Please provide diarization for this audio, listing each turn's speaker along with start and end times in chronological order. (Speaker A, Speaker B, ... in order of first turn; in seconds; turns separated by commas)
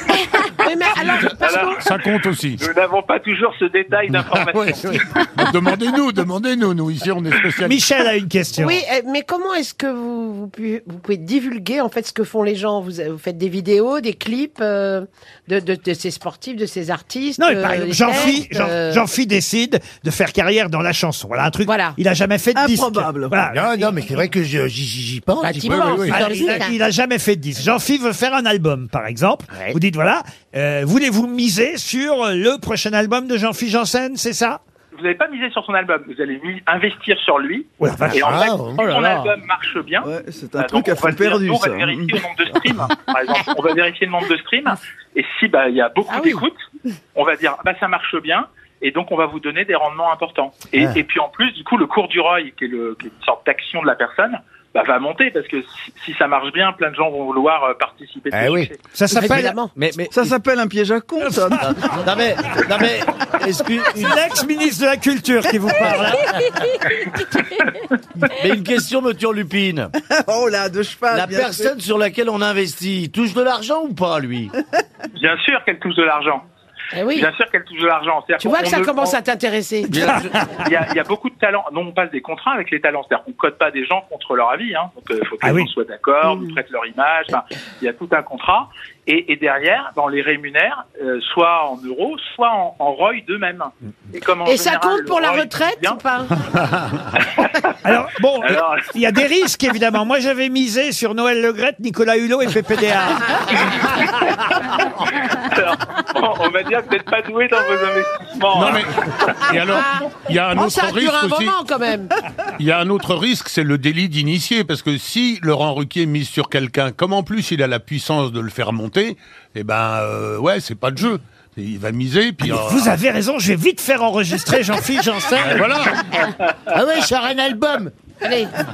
Speaker A: 0.4-1.8, Speaker B: 1.4-5.0, Speaker C: 1.5-2.6, Speaker C: 4.1-7.8, Speaker D: 7.6-8.8, Speaker A: 8.6-19.0, Speaker D: 17.4-23.9, Speaker A: 21.6-22.0, Speaker E: 22.6-23.4, Speaker F: 23.5-26.6, Speaker A: 25.4-26.8, Speaker C: 25.7-26.1, Speaker D: 26.1-34.6, Speaker B: 34.9-46.6, Speaker D: 37.8-38.4, Speaker F: 38.1-38.9, Speaker E: 38.8-39.3, Speaker E: 40.0-42.3, Speaker A: 46.1-46.4, Speaker B: 47.1-58.8, Speaker F: 58.3-58.7, Speaker D: 59.0-59.6, Speaker A: 59.1-59.7, Speaker G: 59.8-60.3, Speaker E: 60.1-61.9, Speaker G: 61.6-64.2, Speaker D: 63.9-66.4, Speaker G: 68.3-69.9, Speaker E: 70.0-71.7, Speaker G: 71.1-74.5, Speaker B: 75.2-76.4, Speaker A: 76.9-77.3, Speaker B: 77.1-79.2, Speaker A: 78.4-80.1, Speaker B: 80.5-96.0, Speaker D: 85.4-85.7, Speaker A: 94.5-96.3, Speaker B: 97.2-97.8, Speaker D: 97.8-103.6, Speaker B: 98.4-99.0, Speaker B: 105.3-108.8, Speaker C: 108.5-111.6, Speaker A: 109.5-112.1, Speaker C: 112.6-123.0, Speaker D: 122.4-125.8, Speaker C: 125.4-126.1, Speaker F: 126.7-127.9, Speaker A: 128.2-128.5